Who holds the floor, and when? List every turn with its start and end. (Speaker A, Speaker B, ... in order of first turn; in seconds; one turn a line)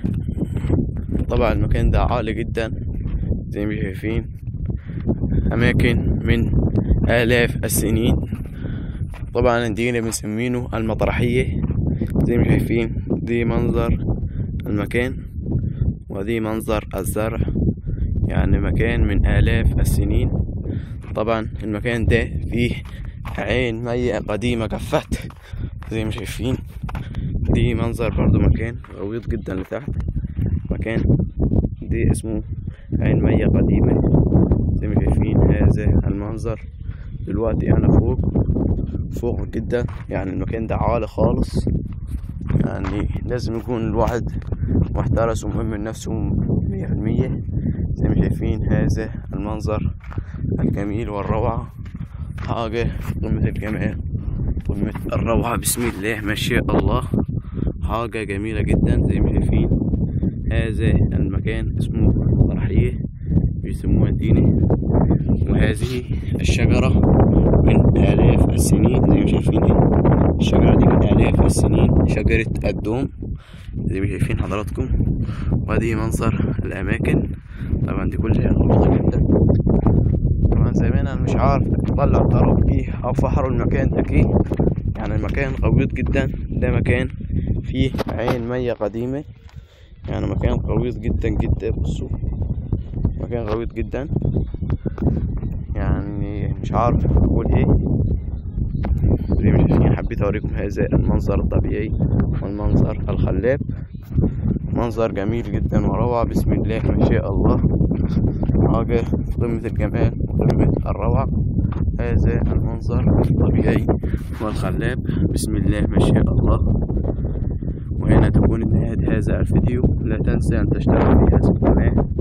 Speaker A: 1.3-2.8
Speaker A: 3.5-4.3
Speaker A: 5.5-6.5
Speaker A: 7.1-8.2
Speaker A: 9.3-11.5
Speaker A: 12.2-14.0
Speaker A: 14.7-15.2
Speaker A: 16.1-17.5
Speaker A: 18.3-20.4
Speaker A: 21.1-25.3
Speaker A: 25.9-26.6
Speaker A: 27.5-30.0
Speaker A: 30.7-31.1
Speaker A: 31.8-32.5
Speaker A: 33.0-34.1
Speaker A: 34.8-36.6
Speaker A: 37.3-38.2
Speaker A: 39.1-41.7
Speaker A: 42.6-44.4
Speaker A: 44.9-47.4
Speaker A: 48.0-49.9
Speaker A: 50.6-51.7
Speaker A: 52.4-54.0
Speaker A: 54.6-57.1
Speaker A: 57.8-59.8
Speaker A: 60.5-63.0
Speaker A: 63.6-64.5
Speaker A: 65.4-67.0
Speaker A: 67.6-69.8
Speaker A: 70.4-73.1
Speaker A: 73.9-74.9
Speaker A: 75.7-77.3
Speaker A: 77.8-79.2
Speaker A: 80.5-84.3
Speaker A: 85.0-89.2
Speaker A: 90.1-92.1
Speaker A: 93.2-94.1
Speaker A: 95.8-97.7
Speaker A: 99.4-103.6
Speaker A: 104.7-107.6
Speaker A: 108.6-111.3
Speaker A: 112.0-116.7
Speaker A: 118.0-122.0